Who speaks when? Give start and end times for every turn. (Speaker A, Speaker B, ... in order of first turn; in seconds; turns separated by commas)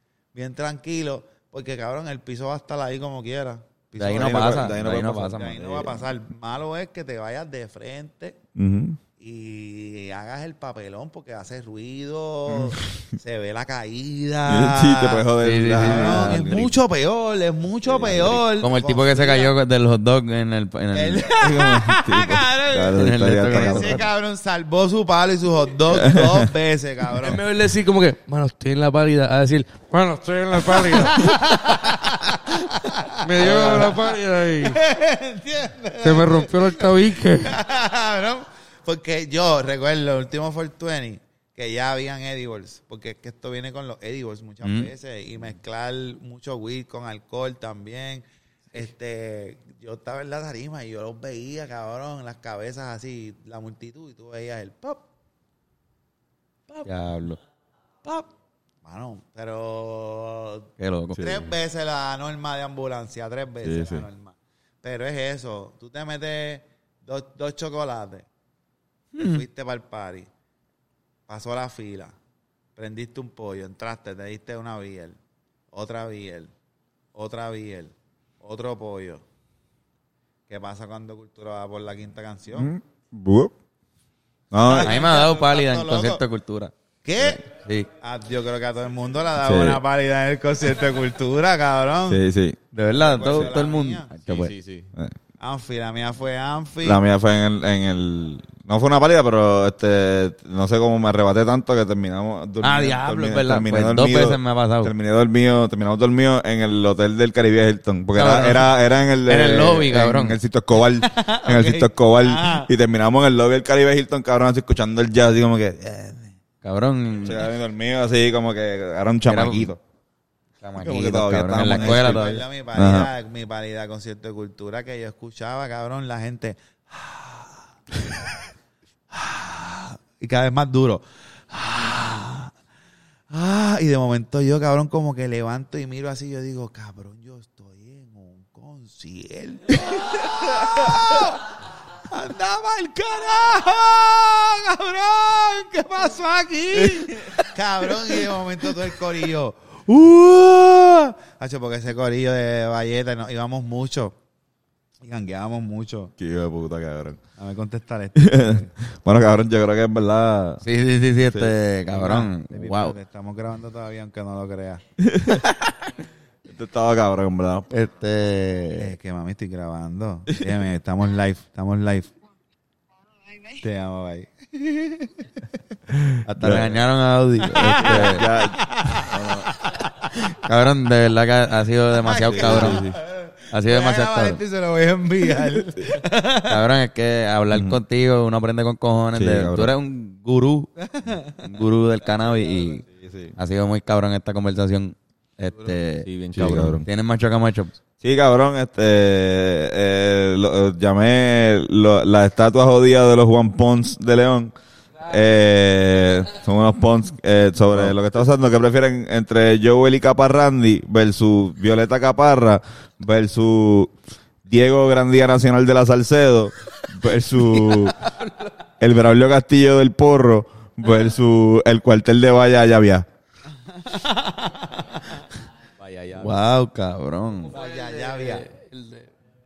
Speaker A: 0.3-4.7, Speaker B: 4.0-6.0, Speaker C: 4.0-5.4, Speaker A: 5.3-8.4, Speaker C: 8.6-9.0, Speaker A: 9.2-19.6, Speaker C: 12.5-13.0, Speaker C: 14.5-16.7, Speaker B: 15.4-16.7, Speaker C: 17.9-18.4, Speaker B: 18.0-21.5, Speaker A: 20.9-27.4, Speaker C: 21.4-24.0, Speaker B: 22.9-24.0, Speaker C: 25.9-26.5, Speaker D: 27.2-32.1, Speaker B: 30.7-31.1, Speaker A: 30.9-55.0, Speaker D: 33.2-34.8, Speaker B: 33.4-34.1, Speaker D: 36.0-37.5, Speaker B: 44.6-44.9, Speaker B: 56.8-57.4, Speaker A: 58.8-68.3, Speaker B: 60.8-61.4, Speaker C: 63.6-64.1, Speaker B: 69.1-69.4, Speaker A: 69.2-70.3, Speaker A: 71.3-72.2, Speaker A: 72.8-75.2, Speaker A: 75.7-76.5, Speaker A: 77.1-79.2, Speaker A: 80.5-82.7, Speaker C: 82.5-83.5, Speaker C: 84.5-85.0, Speaker A: 84.6-86.2, Speaker B: 84.8-87.9, Speaker A: 87.0-87.4, Speaker A: 88.0-92.2, Speaker C: 89.4-89.8, Speaker C: 92.1-92.6, Speaker B: 92.7-94.5, Speaker A: 92.9-94.1, Speaker E: 94.2-94.9, Speaker A: 95.4-97.0, Speaker C: 96.8-116.0, Speaker B: 102.6-104.9, Speaker B: 108.1-108.7, Speaker B: 109.2-110.4, Speaker A: 111.0-112.7, Speaker A: 116.0-116.3, Speaker B: 116.6-117.4, Speaker C: 117.2-119.8, Speaker B: 119.2-119.7, Speaker B: 120.6-122.4, Speaker C: 120.8-123.1, Speaker A: 121.6-127.7, Speaker A: 129.1-132.5, Speaker A: 133.3-141.4, Speaker A: 142.1-154.2, Speaker C: 146.8-147.4, Speaker A: 155.0-156.1, Speaker C: 156.2-157.2, Speaker A: 157.3-158.7, Speaker C: 158.2-160.6, Speaker B: 160.6-162.9, Speaker A: 161.9-164.8, Speaker C: 165.0-165.7, Speaker C: 166.5-167.7, Speaker B: 167.7-168.9, Speaker A: 168.7-172.1, Speaker A: 173.5-175.2, Speaker B: 176.2-178.3, Speaker C: 176.4-176.8, Speaker C: 177.5-179.5, Speaker A: 177.5-179.7, Speaker B: 180.4-182.8, Speaker A: 182.0-186.6, Speaker C: 182.3-183.0, Speaker B: 183.5-184.4, Speaker B: 186.5-190.8, Speaker C: 187.5-187.8, Speaker C: 189.1-189.7, Speaker B: 191.3-197.8, Speaker C: 192.9-193.3, Speaker E: 196.0-196.8, Speaker C: 196.3-196.9, Speaker C: 198.0-204.5, Speaker C: 205.0-218.0, Speaker D: 218.0-218.5, Speaker C: 218.8-223.1, Speaker A: 223.7-225.0, Speaker E: 225.8-226.4, Speaker B: 226.1-227.5, Speaker D: 227.4-229.1, Speaker A: 227.5-228.5